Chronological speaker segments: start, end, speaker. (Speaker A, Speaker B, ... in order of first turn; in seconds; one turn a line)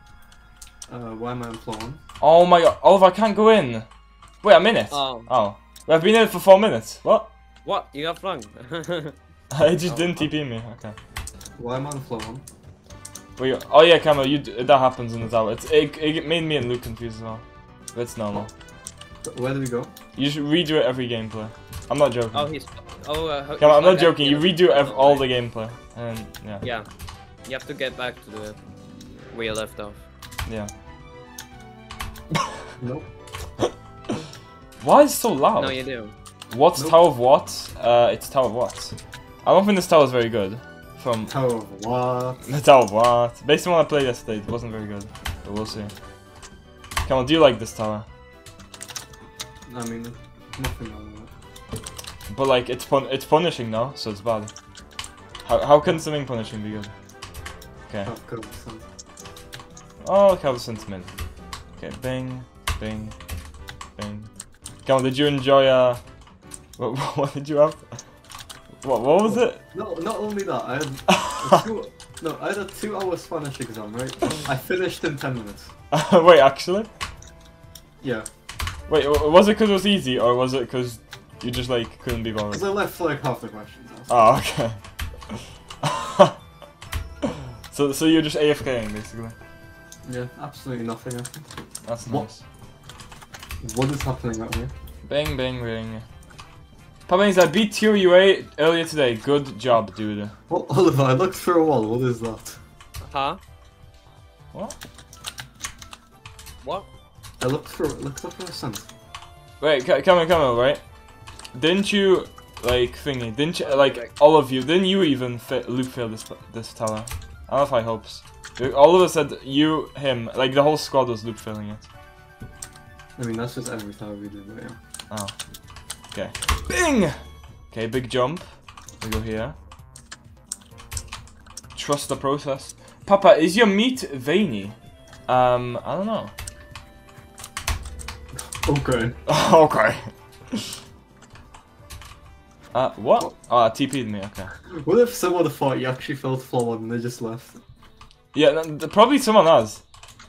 Speaker A: 0.9-2.0
Speaker B: 2.2-3.9
Speaker B: 4.4-7.3
Speaker C: 4.9-5.3
Speaker C: 7.7-9.2
Speaker B: 9.5-10.9
Speaker C: 9.8-10.3
Speaker A: 11.6-12.4
Speaker B: 13.4-18.5
Speaker A: 19.2-19.9
Speaker B: 20.2-22.5
Speaker C: 22.3-25.3
Speaker B: 23.6-26.6
Speaker C: 27.4-28.6
Speaker C: 29.3-30.0
Speaker B: 30.5-30.7
Speaker A: 32.8-33.1
Speaker B: 34.8-35.8
Speaker C: 35.6-36.1
Speaker B: 36.5-41.3
Speaker A: 41.3-42.4
Speaker B: 42.5-45.9
Speaker B: 47.0-48.1
Speaker A: 49.7-51.3
Speaker B: 52.3-54.5
Speaker B: 55.5-56.9
Speaker A: 58.0-58.9
Speaker B: 60.0-61.1
Speaker B: 61.8-63.2
Speaker B: 64.0-64.3
Speaker B: 64.8-66.0
Speaker B: 66.8-67.9
Speaker B: 68.8-69.6
Speaker A: 69.2-75.7
Speaker B: 71.1-71.6
Speaker B: 75.9-76.9
Speaker A: 78.0-78.3
Speaker B: 78.9-82.7
Speaker A: 82.5-84.2
Speaker B: 84.1-84.8
Speaker B: 85.3-86.4
Speaker B: 87.2-89.3
Speaker A: 90.0-92.3
Speaker B: 91.9-92.4
Speaker A: 93.6-94.7
Speaker B: 95.0-96.0
Speaker B: 97.1-100.3
Speaker A: 100.5-102.6
Speaker C: 103.0-103.4
Speaker C: 106.6-106.9
Speaker A: 107.4-108.9
Speaker B: 109.6-110.8
Speaker B: 111.5-121.9
Speaker C: 113.6-114.1
Speaker A: 123.2-124.8
Speaker B: 125.1-125.3
Speaker B: 126.1-127.2
Speaker B: 127.7-128.4
Speaker B: 129.0-129.6
Speaker B: 131.8-134.8
Speaker B: 135.3-136.3
Speaker A: 138.4-139.2
Speaker B: 139.3-140.7
Speaker B: 142.7-144.5
Speaker A: 144.7-147.6
Speaker B: 148.3-149.8